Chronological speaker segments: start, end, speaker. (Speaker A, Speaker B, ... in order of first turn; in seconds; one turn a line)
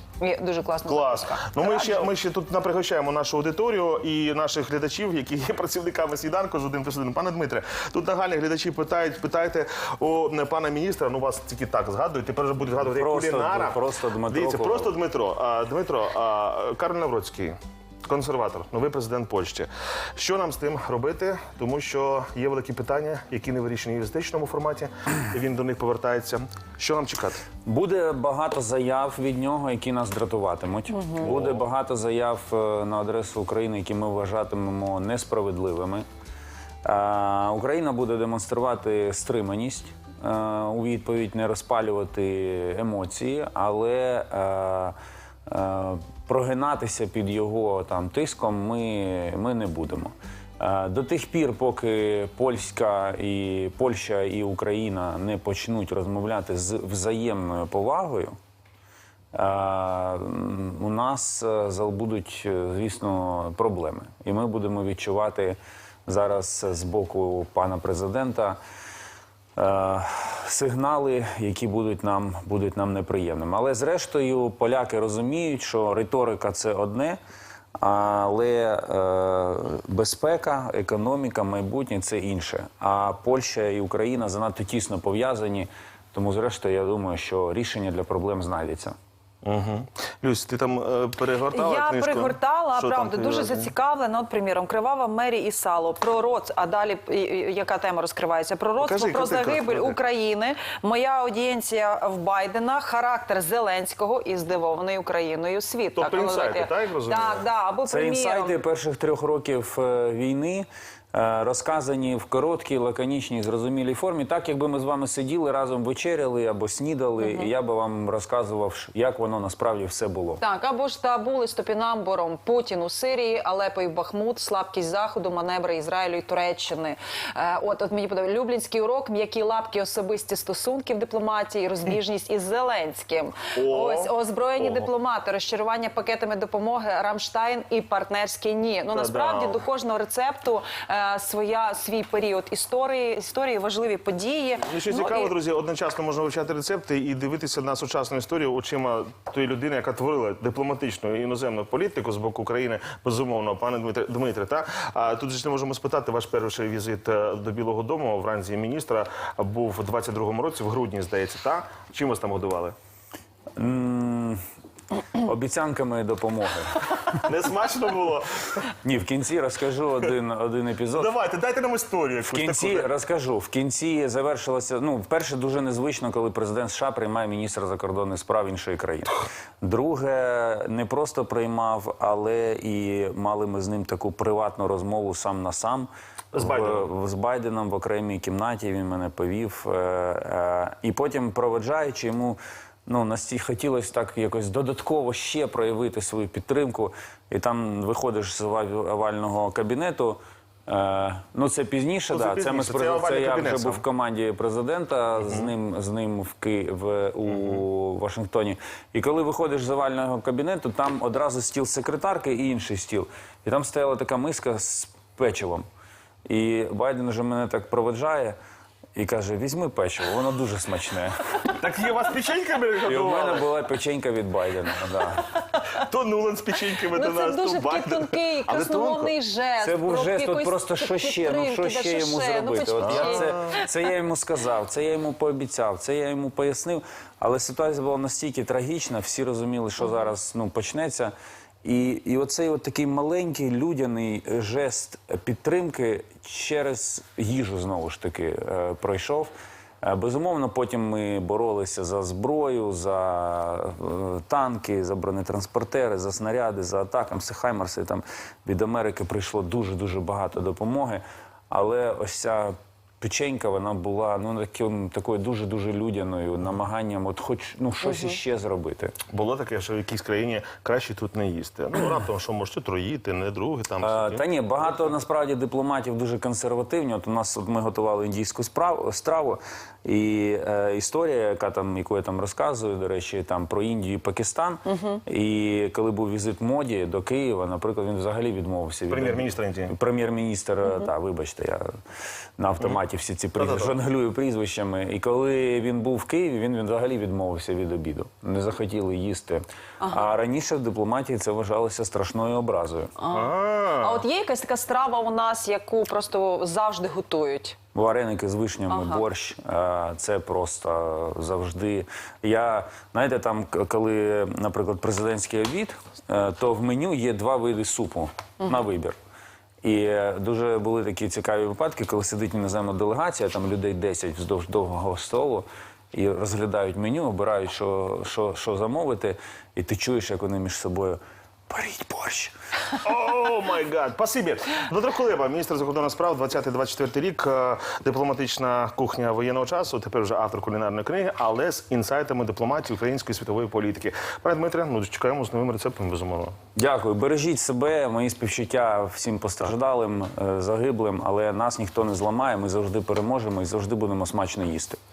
Speaker A: 0.2-2.1
Speaker B: 0.9-27.4
Speaker C: 12.9-14.9
Speaker C: 27.6-36.0
Speaker A: 30.9-31.3
Speaker B: 31.2-31.6
Speaker C: 36.8-44.9
Speaker C: 45.5-58.4
Speaker C: 59.3-68.6
Speaker C: 69.5-77.2
Speaker C: 77.8-89.0
Speaker B: 89.4-93.7
Speaker A: 91.5-108.6
Speaker B: 98.8-100.0
Speaker B: 106.0-107.5
Speaker C: 107.9-120.4
Speaker A: 117.2-117.5
Speaker A: 120.4-145.3
Speaker B: 133.5-134.9
Speaker B: 138.9-139.6
Speaker B: 144.6-162.7
Speaker C: 163.6-164.4
Speaker C: 165.2-167.1
Speaker B: 167.1-168.6
Speaker C: 168.8-171.1
Speaker B: 170.9-172.9
Speaker C: 172.3-215.7
Speaker B: 186.3-186.9
Speaker B: 202.1-203.8
Speaker B: 205.3-205.5
Speaker B: 207.2-207.6
Speaker C: 216.2-218.3
Speaker C: 218.9-221.2
Speaker B: 221.4-223.5
Speaker C: 222.8-225.3
Speaker B: 225.7-229.1
Speaker A: 226.9-233.7
Speaker C: 229.6-241.1
Speaker B: 232.8-233.5
Speaker C: 241.6-249.3
Speaker C: 249.8-268.9
Speaker A: 267.9-268.1
Speaker B: 269.1-274.2
Speaker C: 273.8-291.6
Speaker A: 284.7-285.0
Speaker B: 288.9-289.7
Speaker C: 292.4-302.9
Speaker B: 293.4-293.7
Speaker A: 299.8-300.1
Speaker A: 303.0-307.6
Speaker B: 303.1-304.0
Speaker C: 307.7-319.0
Speaker A: 308.7-309.0
Speaker C: 319.6-332.3
Speaker B: 332.8-346.3
Speaker C: 346.5-354.8